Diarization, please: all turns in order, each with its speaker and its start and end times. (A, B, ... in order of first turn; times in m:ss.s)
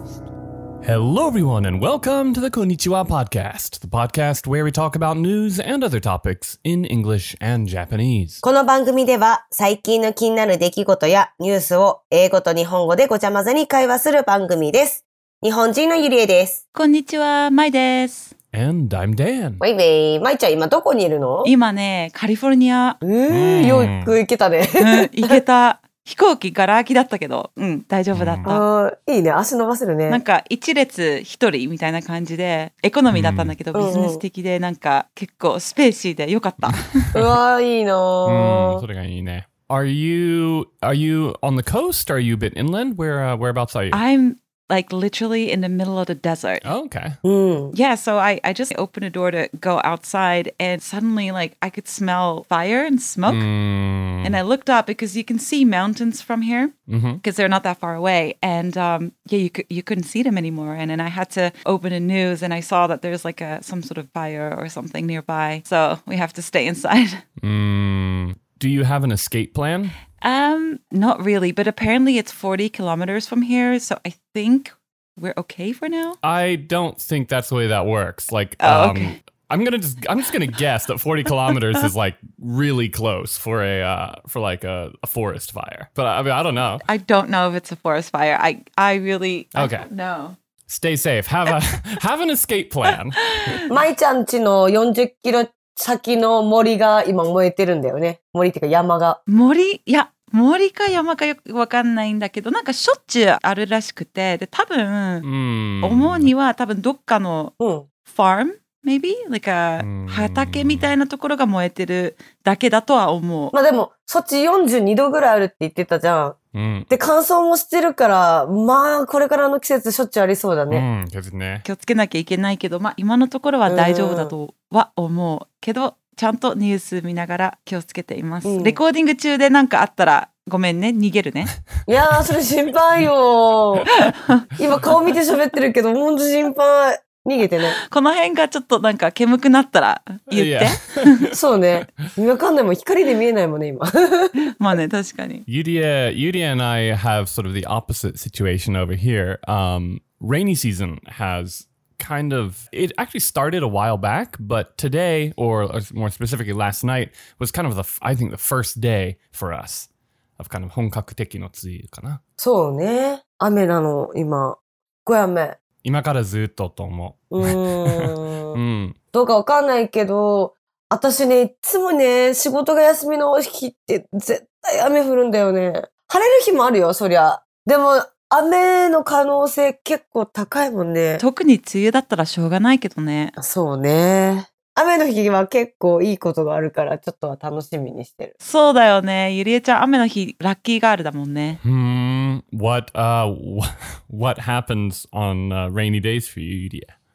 0:00.8-0:08.4 A
0:08.4-0:16.6 B
0:16.7-0:18.3 C
0:18.5-0:19.6 A
0:19.6-0:21.5 B
0:21.4-0:23.0 C
0:23.0-0:25.4 B
0:23.3-0:24.2 A
0:24.8-0:28.6 C
0:28.1-0:28.5 A
0:28.4-0:30.2 B
0:30.1-0:37.1 C
0:33.1-0:33.6 A
0:33.7-0:34.2 B
0:36.6-0:37.3 A
0:37.1-0:38.8 B
0:38.3-0:44.0 A
0:43.9-0:46.6 C
0:46.6-0:47.2 A
0:47.2-0:47.8 B
0:47.7-0:53.5 C
0:53.3-0:54.4 A
0:54.2-1:07.2 C
0:56.9-0:57.2 A
1:07.4-1:10.0 A
1:10.2-1:16.2 C
1:16.2-1:26.8 A
1:18.6-1:19.2 C
1:26.8-1:30.4 C
1:29.5-1:29.9 A
1:30.7-1:33.6 A
1:33.2-1:33.6 C
1:33.7-1:39.2 B
1:39.3-1:45.3 C
1:45.2-1:46.3 A
1:45.8-1:47.5 C
1:47.6-1:47.9 B
1:48.1-1:53.5 C
1:49.8-1:50.9 A
1:53.5-1:56.4 B
1:56.5-1:56.9 A
1:56.9-2:00.9 B
2:00.7-2:01.6 A
2:01.6-2:11.6 C
2:03.7-2:04.3 B
2:08.4-2:08.8 B
2:11.9-2:13.9 B
2:14.0-2:14.4 C
2:14.6-2:17.8 B
2:17.9-2:21.3 C
2:20.3-2:21.3 A
2:21.3-2:24.5 B
2:24.4-2:25.4 C
2:25.5-2:42.2 A
2:42.4-2:45.6 B
2:45.8-2:49.0 A
2:47.3-2:48.6 B
2:49.1-3:01.2 B
3:01.2-3:03.4 C
3:03.4-3:08.3 B
3:08.4-3:11.6 C
3:11.6-3:16.9 A